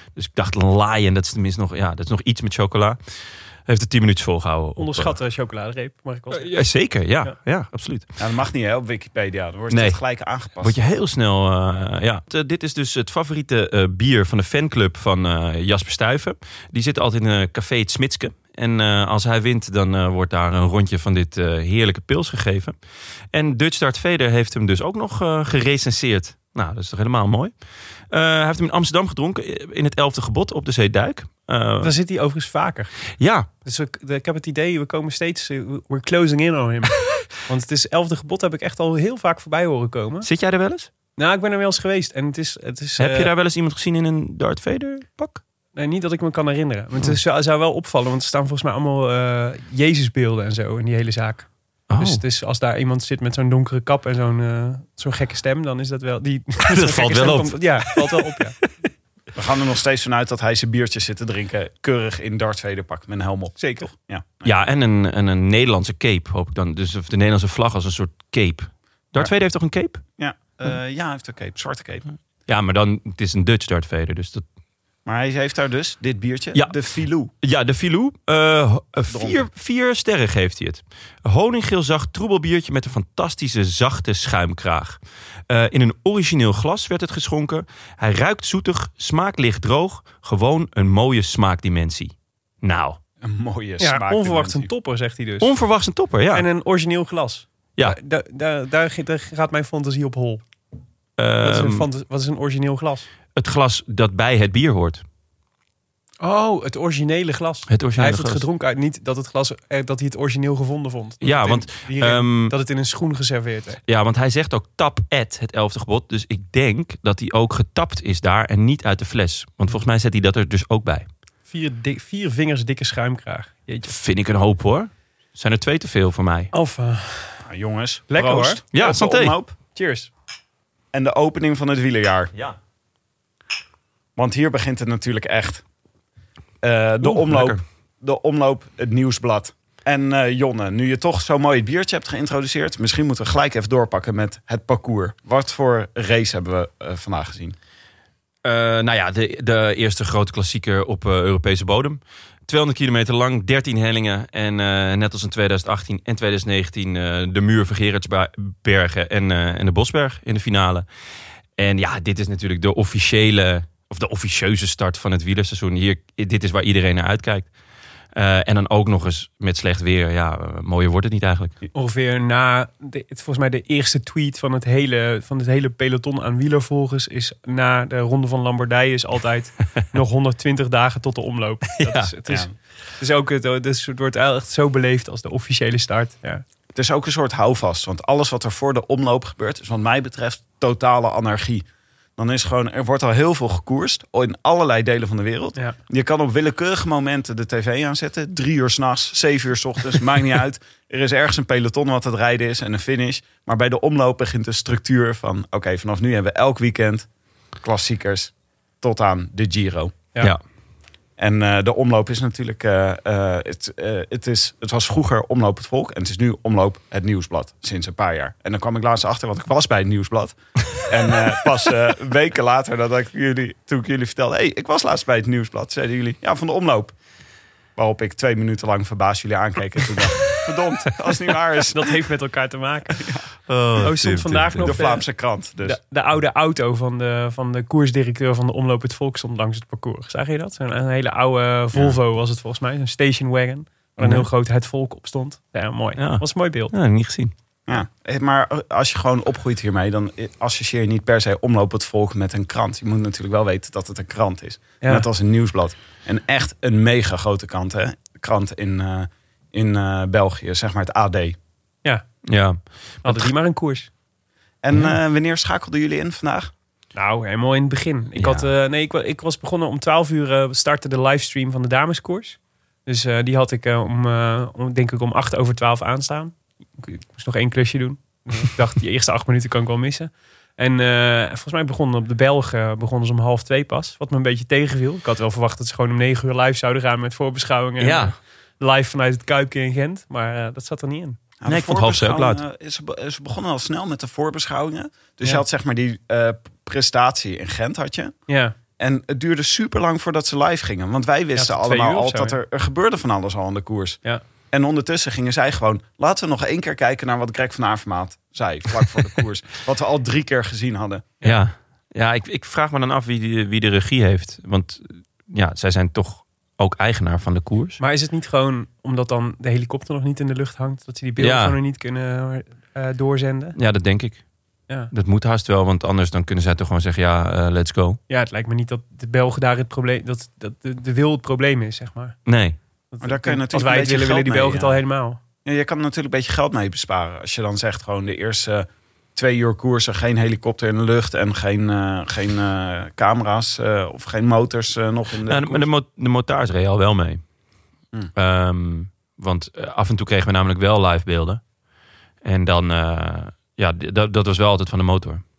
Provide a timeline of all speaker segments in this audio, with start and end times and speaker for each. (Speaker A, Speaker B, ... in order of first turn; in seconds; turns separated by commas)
Speaker A: 0.1-3.0, Speaker A: 3.6-5.2, Speaker B: 4.8-6.5, Speaker A: 6.3-8.1, Speaker C: 8.2-10.8, Speaker A: 9.7-10.0, Speaker A: 10.6-22.7, Speaker A: 23.3-27.5, Speaker A: 28.1-31.9, Speaker B: 31.8-32.9, Speaker A: 33.2-33.5, Speaker B: 33.6-40.3, Speaker A: 40.2-40.9, Speaker B: 41.2-43.3, Speaker A: 43.0-45.4, Speaker B: 45.8-58.5, Speaker A: 51.9-52.2, Speaker A: 56.6-58.4, Speaker C: 59.3-64.5, Speaker B: 63.6-63.9, Speaker A: 64.4-70.0, Speaker C: 70.2-72.0, Speaker A: 72.5-74.4, Speaker C: 75.0-77.3, Speaker A: 77.4-93.0, Speaker C: 79.1-79.4, Speaker C: 93.2-94.7, Speaker B: 93.8-95.5, Speaker A: 95.4-96.5, Speaker B: 96.3-100.4, Speaker A: 101.2-101.9, Speaker B: 101.4-103.0, Speaker A: 103.3-105.0, Speaker B: 106.2-113.8, Speaker A: 107.7-108.4, Speaker A: 111.2-112.5, Speaker A: 113.9-121.1, Speaker B: 121.5-123.9, Speaker A: 123.9-126.5, Speaker B: 126.5-127.4, Speaker C: 127.4-129.5, Speaker B: 128.1-128.6, Speaker A: 128.7-129.3, Speaker B: 129.7-130.1, Speaker C: 130.9-132.3, Speaker C: 134.2-135.6, Speaker C: 136.6-147.6, Speaker A: 137.0-137.6, Speaker A: 148.4-160.8, Speaker A: 161.6-167.5, Speaker A: 168.1-171.6, Speaker B: 171.7-186.4, Speaker A: 181.8-182.1, Speaker C: 186.7-191.6, Speaker C: 192.2-207.1, Speaker C: 207.6-209.9, Speaker C: 211.2-226.9, Speaker C: 227.8-232.0, Speaker B: 231.7-233.0, Speaker C: 232.9-233.2, Speaker A: 233.5-234.8, Speaker B: 233.8-235.0, Speaker C: 234.6-235.8, Speaker B: 235.6-246.7, Speaker A: 244.0-244.2, Speaker A: 246.0-247.3, Speaker C: 247.7-261.4, Speaker B: 254.8-255.1, Speaker A: 262.2-263.3, Speaker B: 263.0-263.9, Speaker C: 264.6-266.5, Speaker B: 266.9-291.2, Speaker A: 268.1-268.4, Speaker A: 287.8-288.1, Speaker C: 291.4-298.1, Speaker A: 291.4-292.4, Speaker B: 298.3-298.5, Speaker C: 298.8-304.0, Speaker B: 301.4-302.4, Speaker C: 304.5-311.1, Speaker A: 311.2-317.8, Speaker B: 317.8-323.6, Speaker A: 321.2-321.6, Speaker A: 323.6-324.2, Speaker A: 324.9-328.0, Speaker B: 328.1-332.2, Speaker A: 332.2-332.6, Speaker B: 332.9-335.2, Speaker C: 333.0-334.8, Speaker C: 335.4-345.6, Speaker A: 345.2-347.2, Speaker A: 348.1-351.4, Speaker A: 352.2-355.2